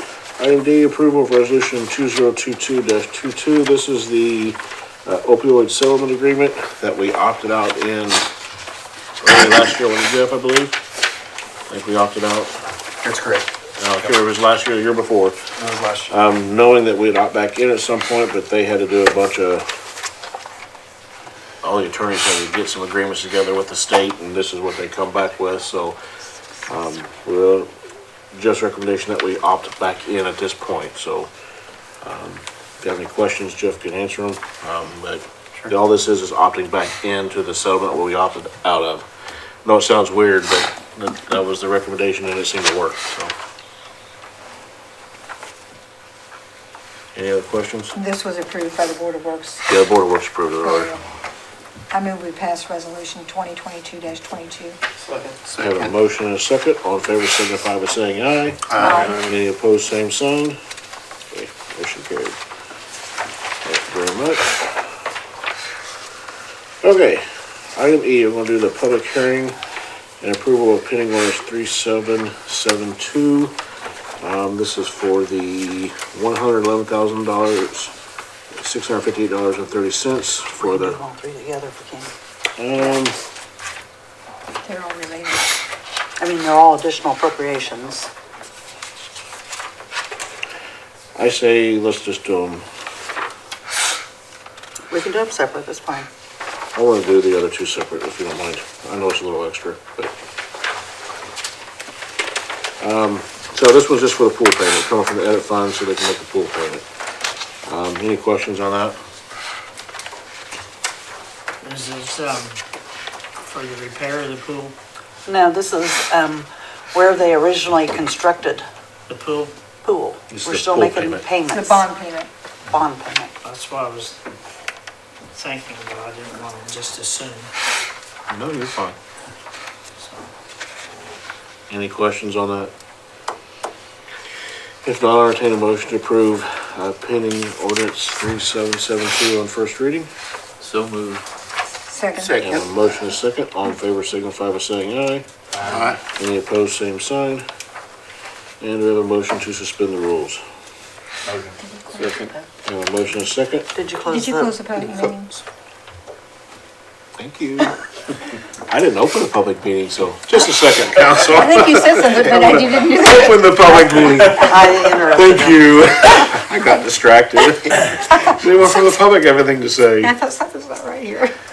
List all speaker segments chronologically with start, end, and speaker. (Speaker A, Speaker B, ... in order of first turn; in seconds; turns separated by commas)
Speaker A: 0.4-8.3, Speaker A: 9.2-10.8, Speaker A: 11.7-12.5, Speaker B: 13.0-13.4, Speaker A: 13.8-15.4, Speaker B: 15.6-16.1, Speaker A: 16.1-19.6, Speaker A: 21.6-26.0, Speaker A: 26.6-27.7, Speaker A: 28.3-31.3, Speaker A: 32.0-39.0, Speaker A: 39.6-43.3, Speaker A: 47.1-47.9, Speaker C: 47.9-49.6, Speaker A: 49.6-50.9, Speaker C: 50.6-51.0, Speaker C: 51.9-54.8, Speaker B: 55.1-55.9, Speaker A: 55.5-60.6, Speaker B: 58.7-59.3, Speaker C: 58.8-59.2, Speaker A: 61.3-62.4, Speaker A: 63.6-64.8, Speaker A: 66.8-69.6, Speaker A: 70.2-73.5, Speaker A: 74.2-77.9, Speaker A: 78.5-81.0, Speaker D: 80.6-82.1, Speaker A: 82.6-83.2, Speaker C: 84.6-85.5, Speaker D: 86.2-88.1, Speaker A: 91.2-92.6, Speaker D: 94.9-96.1, Speaker A: 96.7-100.1, Speaker A: 102.8-106.8, Speaker A: 107.7-109.0, Speaker E: 111.6-112.6, Speaker E: 113.4-114.8, Speaker D: 115.2-118.6, Speaker E: 119.1-119.5, Speaker D: 119.8-121.8, Speaker A: 120.3-121.2, Speaker C: 121.5-122.3, Speaker D: 122.7-123.3, Speaker E: 123.4-124.2, Speaker E: 125.3-127.5, Speaker A: 128.3-128.9, Speaker E: 130.0-130.3, Speaker A: 131.7-132.7, Speaker A: 134.8-140.1, Speaker C: 141.9-142.4, Speaker B: 142.2-142.7, Speaker A: 142.4-147.4, Speaker B: 145.6-146.0, Speaker A: 148.6-150.4, Speaker B: 151.3-152.3, Speaker C: 151.6-152.3, Speaker A: 152.6-153.7, Speaker D: 153.7-154.6, Speaker C: 154.1-155.3, Speaker A: 157.2-157.8, Speaker A: 158.7-170.1, Speaker C: 161.3-163.7, Speaker D: 164.4-165.7, Speaker C: 170.0-171.3